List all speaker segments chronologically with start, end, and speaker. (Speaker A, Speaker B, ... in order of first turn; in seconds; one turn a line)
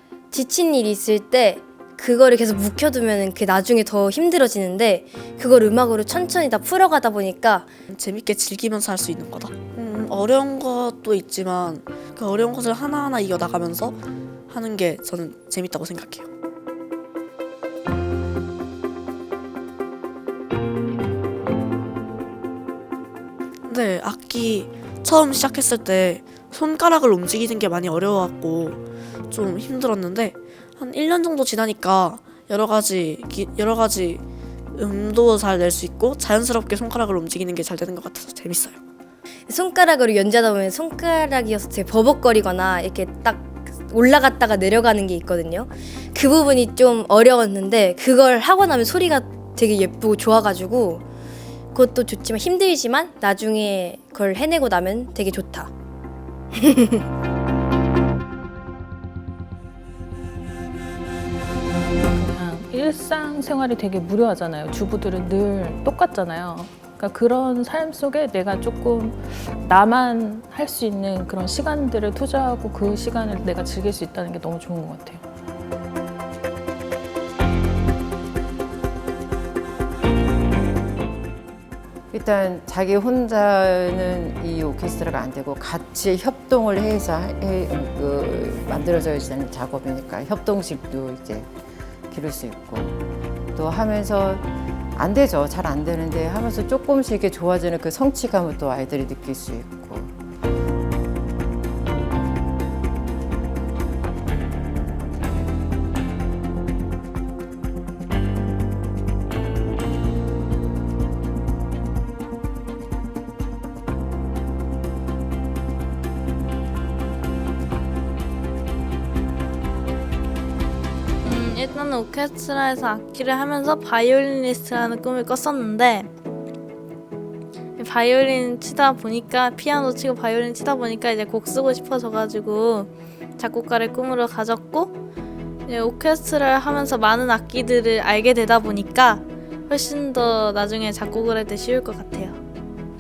Speaker A: 0.3-7.7
Speaker B: 7.9-16.3
Speaker B: 23.7-34.2
Speaker B: 34.8-38.8
Speaker A: 39.5-51.0
Speaker A: 51.7-55.7
Speaker A: 56.6-57.0
Speaker C: 62.1-75.2
Speaker D: 82.1-91.5
Speaker D: 92.1-93.0
Speaker D: 93.5-100.1
Speaker E: 121.2-126.1
Speaker E: 127.8-134.9
Speaker E: 135.7-142.4